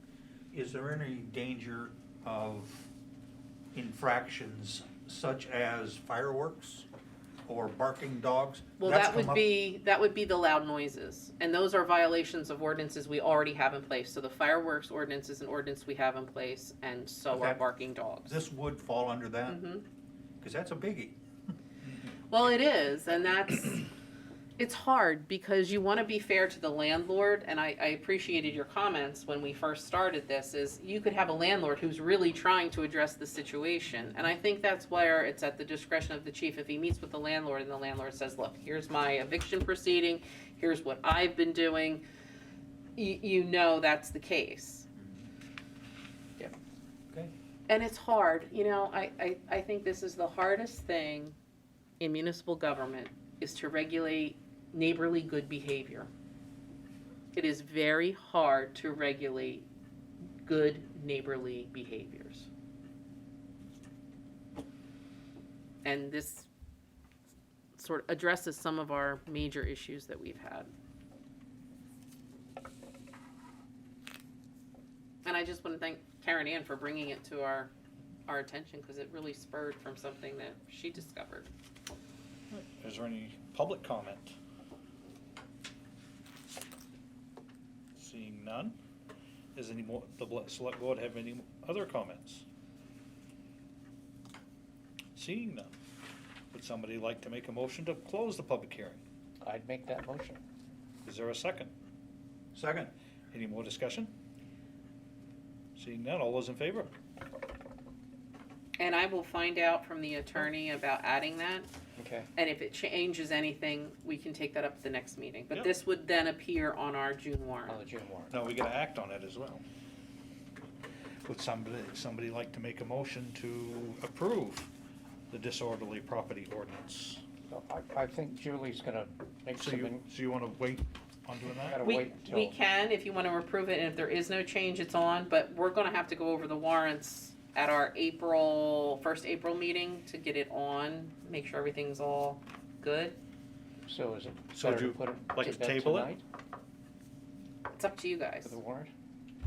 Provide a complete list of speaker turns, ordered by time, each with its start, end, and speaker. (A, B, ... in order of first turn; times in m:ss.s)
0:00.5-0:02.9 A
0:03.7-0:06.9 A
0:07.5-0:09.4 A
0:08.8-0:18.4 B
0:17.3-0:17.6 A
0:18.2-0:19.6 A
0:19.5-0:19.8 B
0:20.4-0:21.2 A
0:22.3-0:23.9 B
0:24.6-0:42.0 B
0:43.0-0:44.9 B
0:45.0-0:45.3 A
0:47.7-0:51.3 B
0:52.0-0:56.1 B
0:57.3-0:59.7 B
1:00.4-1:02.5 B
1:05.8-1:06.5 B
1:07.7-1:10.7 B
1:15.2-1:17.7 B
1:18.3-1:21.5 B
1:22.5-1:24.4 C
1:28.0-1:28.8 C
1:29.5-1:32.4 C
1:35.2-1:35.7 C
1:36.5-1:39.0 C
1:39.4-1:40.4 D
1:41.0-1:41.7 C
1:42.5-1:42.9 A
1:43.3-1:44.1 C
1:45.8-1:46.9 C
1:48.8-1:51.7 B
1:52.0-1:52.3 D
1:52.4-1:57.8 B
1:57.7-1:58.3 D
1:58.3-1:59.6 C
2:01.2-2:04.7 C
2:05.3-2:07.2 C
2:07.5-2:10.0 D
2:09.6-2:11.8 C
2:11.6-2:12.5 D
2:11.8-2:23.2 B
2:23.9-2:26.2 D
2:24.5-2:26.1 C
2:27.7-2:28.5 B
2:28.4-2:28.9 D